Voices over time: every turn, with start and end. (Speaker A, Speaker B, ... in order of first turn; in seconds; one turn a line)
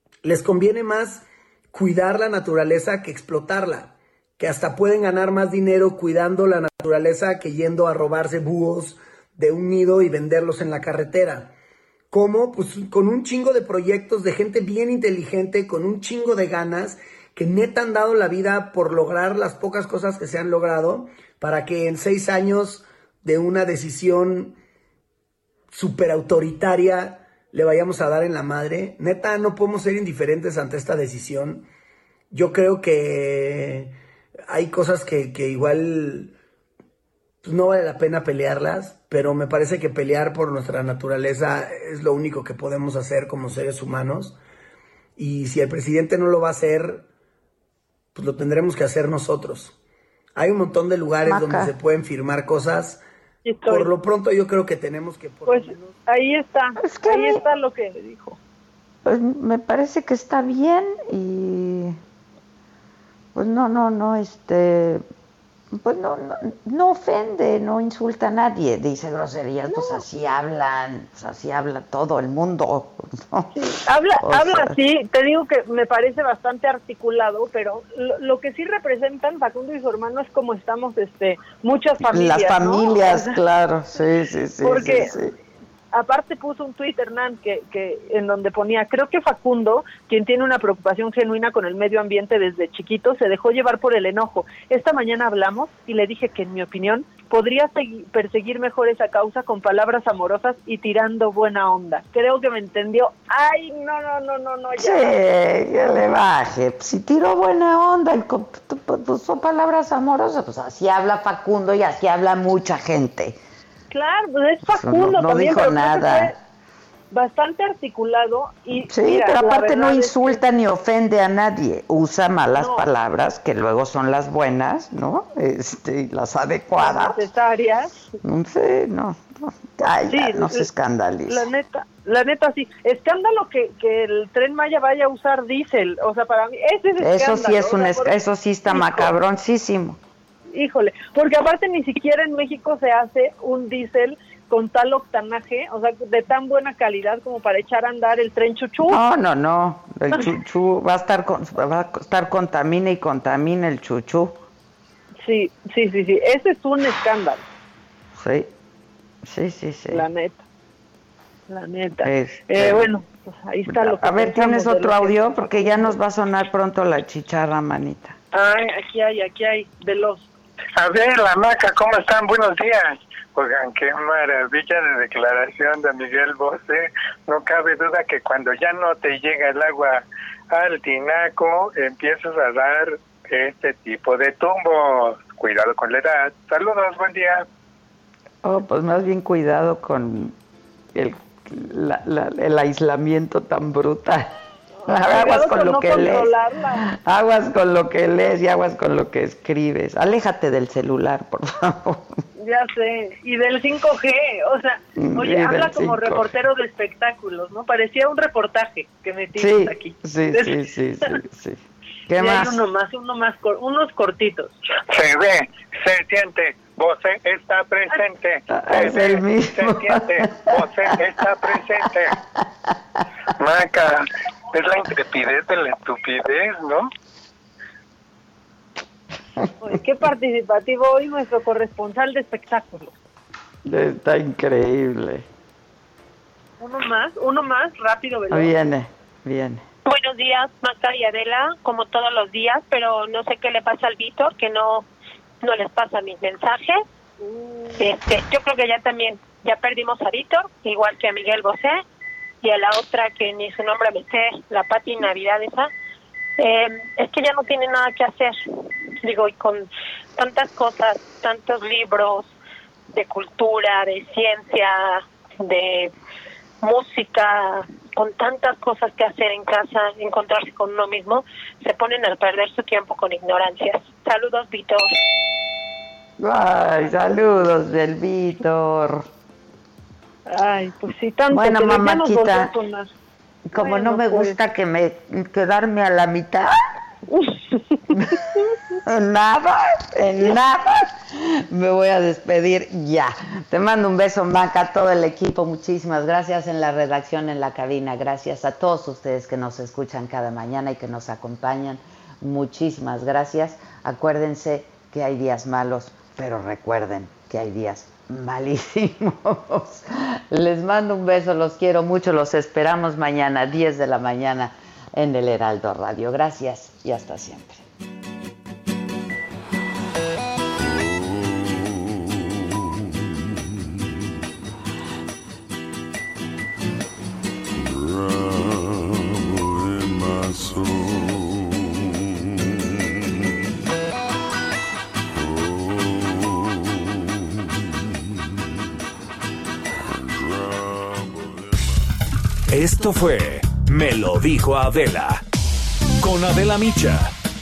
Speaker A: 0.2-11.5
Speaker A: 12.1-24.6
Speaker A: 25.7-31.7
Speaker A: 32.3-33.9
Speaker A: 34.5-36.3
Speaker A: 37.4-44.4
Speaker A: 45.2-47.1
Speaker A: 48.1-49.8
Speaker A: 50.4-53.0
Speaker B: 51.2-51.7
Speaker C: 53.4-53.9
Speaker A: 53.7-56.0
Speaker C: 55.5-58.4
Speaker B: 56.8-57.4
Speaker B: 59.0-62.0
Speaker B: 63.4-65.0
Speaker B: 65.7-73.5
Speaker C: 69.7-70.0
Speaker C: 73.5-83.4
Speaker B: 74.2-74.8
Speaker B: 82.1-85.3
Speaker C: 84.6-85.1
Speaker C: 85.9-105.2
Speaker B: 104.8-113.4
Speaker C: 113.9-116.3
Speaker B: 114.7-116.3
Speaker C: 117.1-120.4
Speaker B: 118.8-127.2
Speaker C: 122.6-122.9
Speaker C: 126.8-127.9
Speaker B: 128.2-131.4
Speaker C: 130.1-130.7
Speaker C: 131.3-138.1
Speaker B: 137.0-140.0
Speaker C: 138.7-139.1
Speaker C: 140.5-149.0
Speaker B: 148.9-154.4
Speaker C: 155.2-157.4
Speaker B: 158.2-158.5
Speaker B: 159.2-160.1
Speaker C: 159.9-160.4
Speaker C: 161.5-166.0
Speaker B: 162.0-162.9
Speaker B: 163.7-168.2
Speaker C: 168.3-170.3
Speaker D: 170.8-187.5
Speaker B: 188.4-190.3
Speaker B: 190.9-194.3
Speaker C: 194.8-196.8
Speaker B: 194.9-202.2
Speaker C: 202.4-211.1
Speaker B: 205.0-206.3
Speaker B: 209.4-212.6
Speaker C: 212.1-214.6
Speaker D: 214.9-222.2
Speaker B: 218.5-220.5
Speaker D: 223.4-226.9
Speaker C: 229.6-232.9
Speaker B: 233.7-235.2
Speaker C: 236.6-238.5
Speaker B: 238.3-239.6
Speaker E: 239.9-244.9
Speaker E: 245.4-246.8
Speaker C: 247.2-247.8
Speaker E: 247.8-251.8
Speaker E: 252.4-255.7
Speaker E: 256.4-258.4
Speaker E: 259.0-262.3
Speaker E: 262.9-265.9
Speaker E: 266.6-274.9
Speaker B: 276.2-279.1
Speaker C: 280.3-282.9
Speaker B: 281.3-282.5
Speaker B: 283.5-286.5
Speaker C: 283.6-284.4
Speaker B: 288.9-317.6
Speaker F: 342.5-345.2
Speaker F: 346.0-347.1